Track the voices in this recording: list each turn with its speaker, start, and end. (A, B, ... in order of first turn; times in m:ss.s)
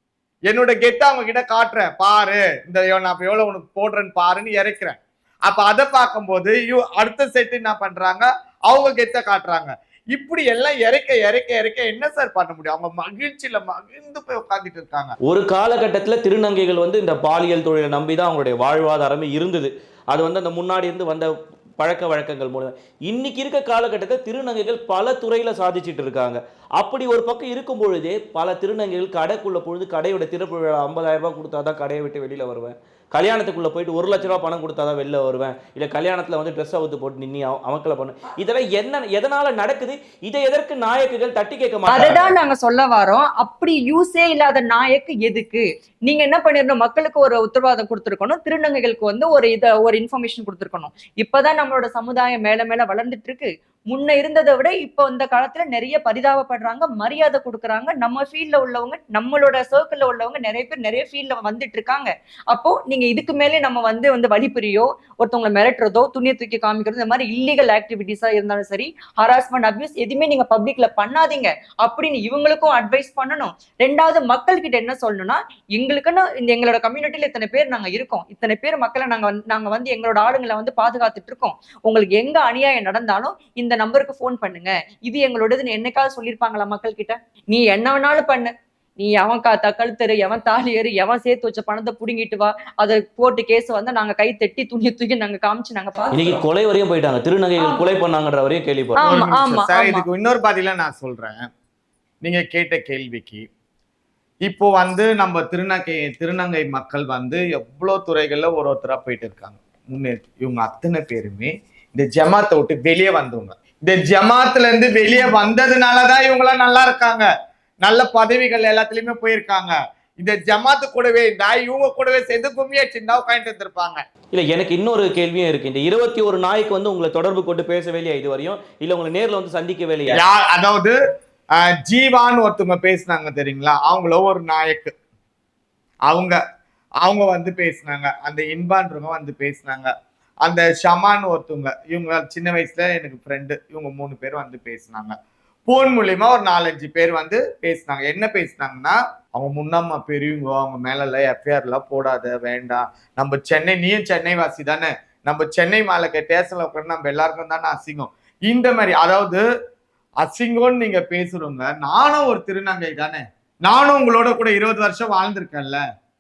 0:00.5-0:15.1 A
0:15.2-0:42.3 B
0:41.9-1:36.4 C
1:36.1-1:39.0 B
1:37.6-1:37.9 C
1:39.0-1:40.0 C
1:39.0-1:41.5 A
1:42.2-1:43.4 A
1:44.5-1:57.3 A
1:57.8-2:04.0 A
2:04.3-2:10.2 B
2:10.1-2:10.9 A
2:11.6-2:14.9 A
2:16.1-2:16.4 A
2:17.0-2:19.9 A
2:20.4-2:25.2 A
2:25.7-2:39.4 A
2:40.2-2:45.8 A